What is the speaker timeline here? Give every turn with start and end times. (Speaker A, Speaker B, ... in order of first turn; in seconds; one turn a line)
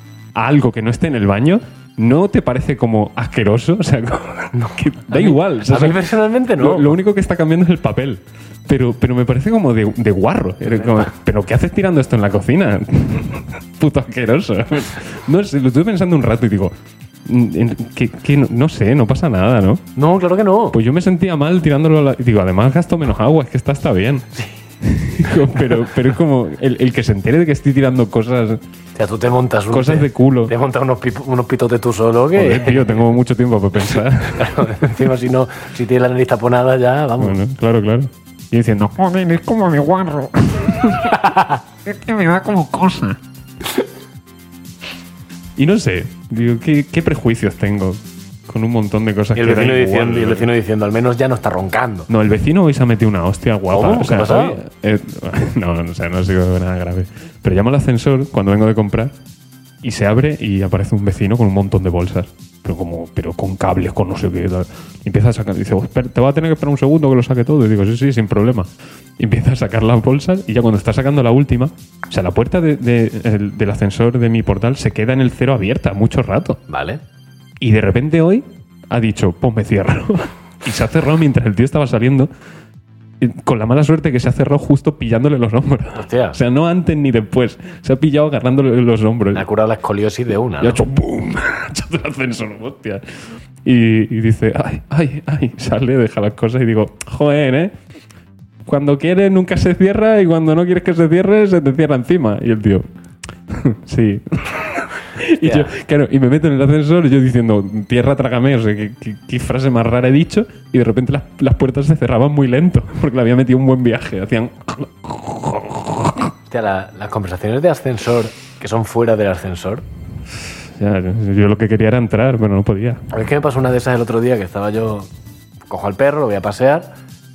Speaker A: 0.3-6.0
Speaker B: 4.5-7.0
Speaker A: 6.6-16.7
Speaker B: 10.8-11.1
Speaker A: 17.2-19.8
Speaker B: 20.0-20.8
Speaker A: 20.7-24.3
Speaker A: 24.8-28.6
Speaker B: 25.2-25.9
Speaker B: 29.0-33.2
Speaker A: 29.7-30.5
Speaker A: 32.3-34.6
Speaker B: 34.2-37.4
Speaker A: 37.2-43.2
Speaker B: 41.1-41.6
Speaker A: 45.6-50.5
Speaker B: 49.4-52.1
Speaker A: 52.1-59.1
Speaker B: 53.7-54.6
Speaker A: 59.8-76.6
Speaker B: 76.7-77.0
Speaker A: 77.6-82.3
Speaker A: 83.2-89.5
Speaker B: 86.0-86.4
Speaker B: 89.3-90.8
Speaker A: 90.6-97.7
Speaker A: 98.7-102.9
Speaker A: 103.5-116.3
Speaker B: 105.4-105.7
Speaker B: 116.5-119.8
Speaker A: 120.7-123.0
Speaker B: 123.1-125.1
Speaker B: 125.7-126.9